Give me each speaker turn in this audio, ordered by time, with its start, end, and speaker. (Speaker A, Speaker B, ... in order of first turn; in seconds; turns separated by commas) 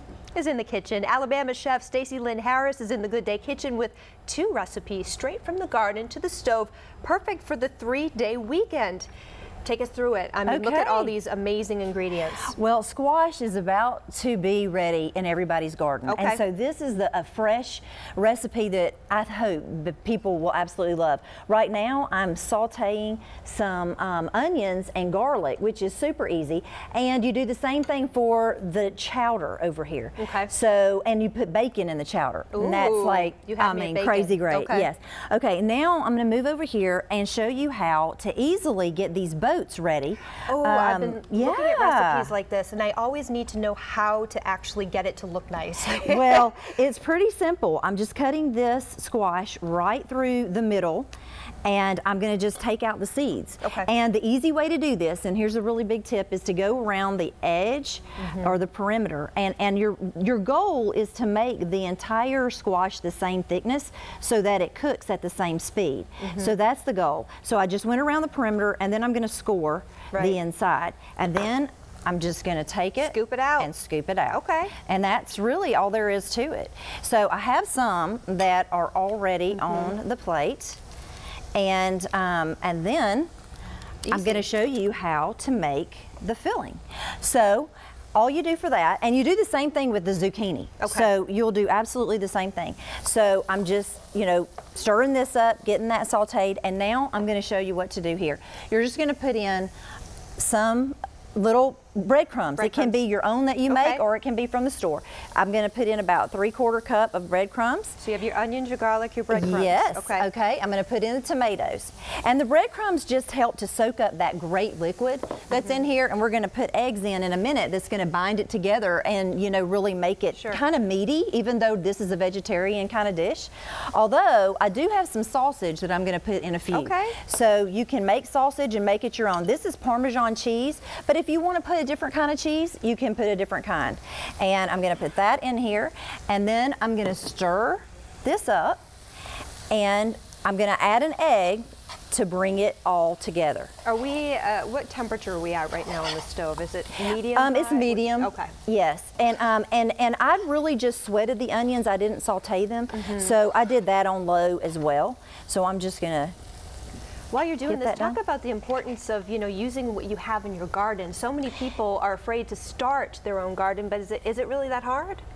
Speaker A: 0.3-9.1, Speaker A: 9.6-12.5, Speaker B: 10.4-11.1, Speaker B: 12.5-42.3, Speaker A: 16.1-16.4, Speaker A: 30.2-30.5, Speaker A: 32.5-34.9, Speaker A: 40.5-46.4, Speaker B: 46.0-51.1, Speaker B: 51.6-80.8, Speaker A: 53.6-53.9, Speaker A: 58.2-58.5, Speaker A: 66.2-66.5, Speaker A: 70.1-70.4, Speaker A: 73.0-73.7, Speaker A: 74.3-74.7, Speaker A: 79.5-79.9, Speaker B: 81.5-83.3, Speaker A: 84.0-84.4, Speaker B: 84.1-99.7, Speaker A: 90.8-91.1, Speaker B: 100.4-108.0, Speaker A: 102.6-103.0, Speaker A: 103.7-104.0, Speaker A: 108.0-110.3, Speaker B: 109.3-138.8, Speaker A: 120.3-120.6, Speaker A: 126.7-127.2, Speaker B: 139.7-143.7, Speaker A: 143.8-148.5, Speaker B: 147.3-156.3, Speaker A: 152.9-153.3, Speaker A: 157.3-165.2, Speaker B: 157.7-158.2